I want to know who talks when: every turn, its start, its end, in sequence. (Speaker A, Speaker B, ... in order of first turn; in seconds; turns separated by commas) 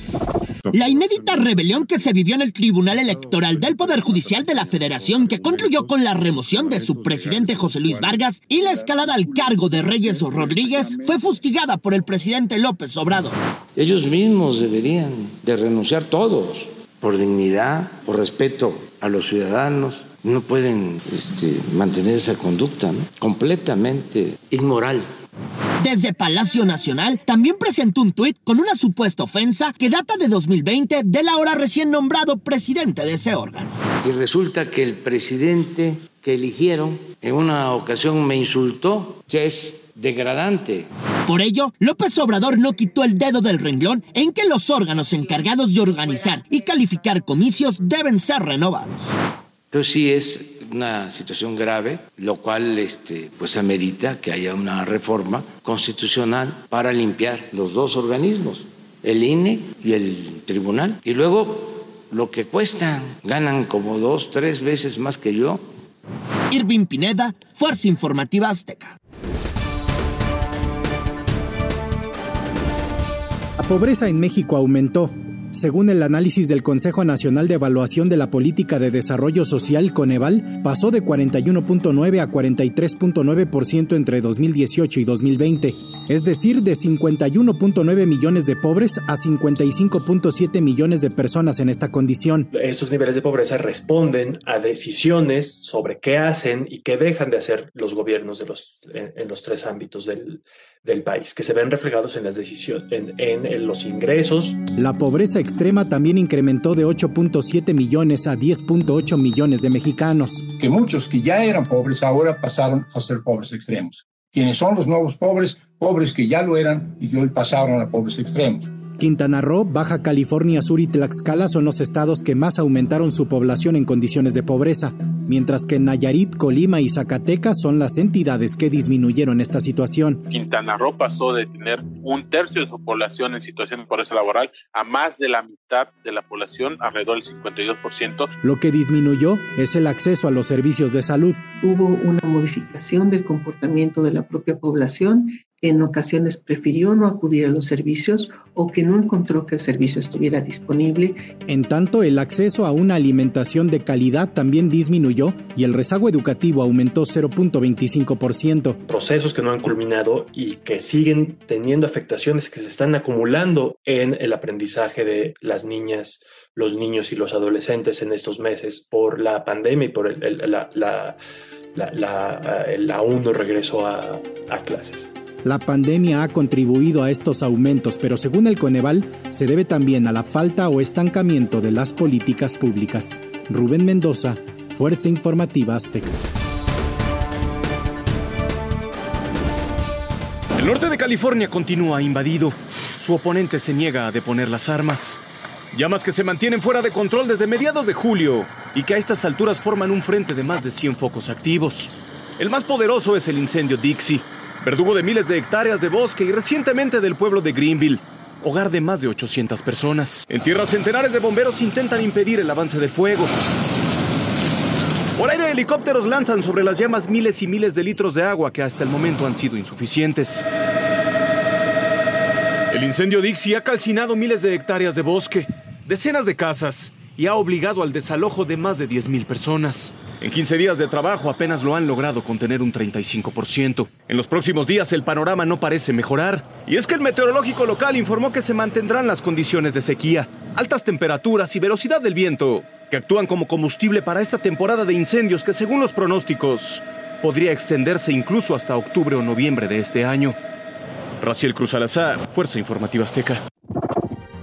Speaker A: 0.7-13.3, Speaker B: 6.8-7.9, Speaker B: 9.4-10.9, Speaker C: 13.8-25.1, Speaker A: 25.8-33.8, Speaker C: 34.0-40.9, Speaker A: 41.2-49.1, Speaker C: 49.7-65.6, Speaker A: 66.5-69.0, Speaker D: 73.6-92.5, Speaker B: 92.5-104.6, Speaker E: 93.9-94.3, Speaker E: 97.1-97.9, Speaker E: 98.5-99.8, Speaker E: 102.9-103.3, Speaker E: 103.9-104.2, Speaker D: 104.8-110.4, Speaker F: 110.6-118.7, Speaker D: 119.0-130.2, Speaker G: 130.3-138.3, Speaker D: 138.4-141.4, Speaker E: 141.6-151.2, Speaker D: 151.5-158.8, Speaker B: 158.9-171.2, Speaker E: 170.2-170.9, Speaker E: 171.8-172.1, Speaker B: 172.1-175.1, Speaker E: 172.7-173.3, Speaker D: 175.4-186.1, Speaker H: 190.6-195.2, Speaker H: 195.7-213.3, Speaker H: 215.2-220.5, Speaker H: 222.7-250.4, Speaker H: 251.2-253.4